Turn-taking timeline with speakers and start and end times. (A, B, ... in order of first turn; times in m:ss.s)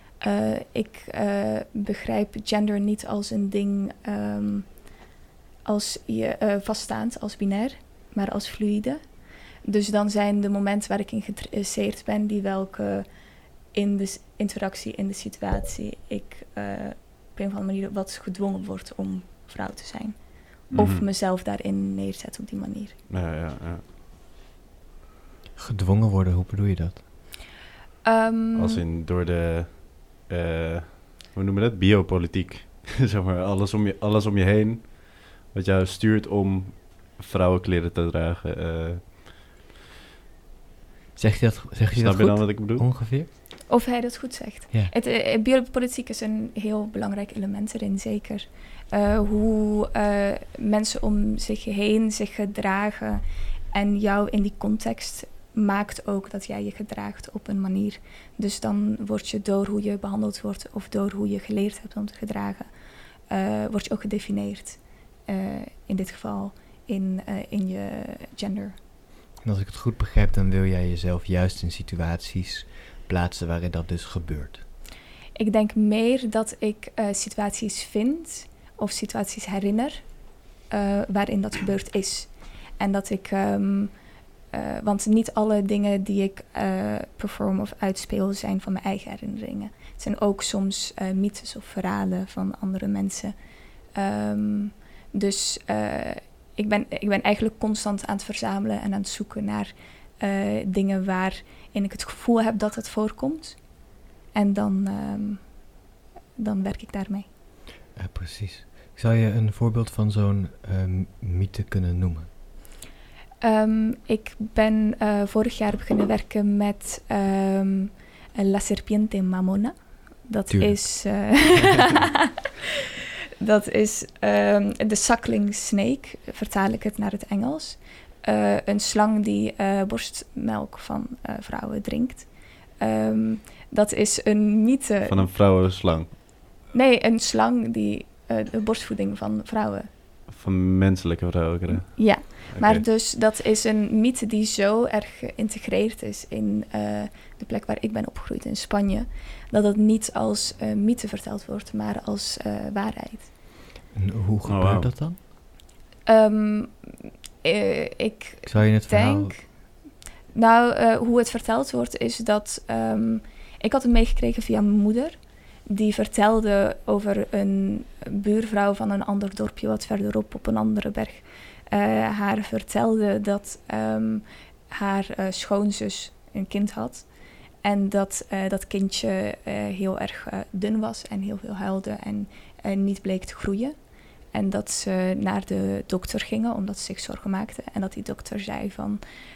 0:00.2-0:04.9 A
0:05.6-0:23.0 A
0:20.7-0:21.0 B
0:23.1-0:23.8 B
0:25.6-0:27.0 C
0:28.0-0:28.8 A
0:28.5-0:39.3 B
0:41.2-0:43.3 C
0:42.0-0:42.8 B
0:43.7-1:02.7 A
1:03.3-1:08.8 A
1:09.4-1:14.6 C
1:15.4-1:45.7 A
1:46.4-1:47.3 A
1:48.0-1:52.3 C
1:53.4-2:02.1 A
2:00.5-2:01.4 C
2:03.4-2:15.3 A
2:15.1-2:16.2 B
2:16.7-2:19.9 A
2:20.3-2:22.8 B
2:21.7-2:33.3 A
2:33.9-2:35.2 C
2:34.5-2:34.9 B
2:36.1-3:09.0 A
2:38.4-2:39.4 C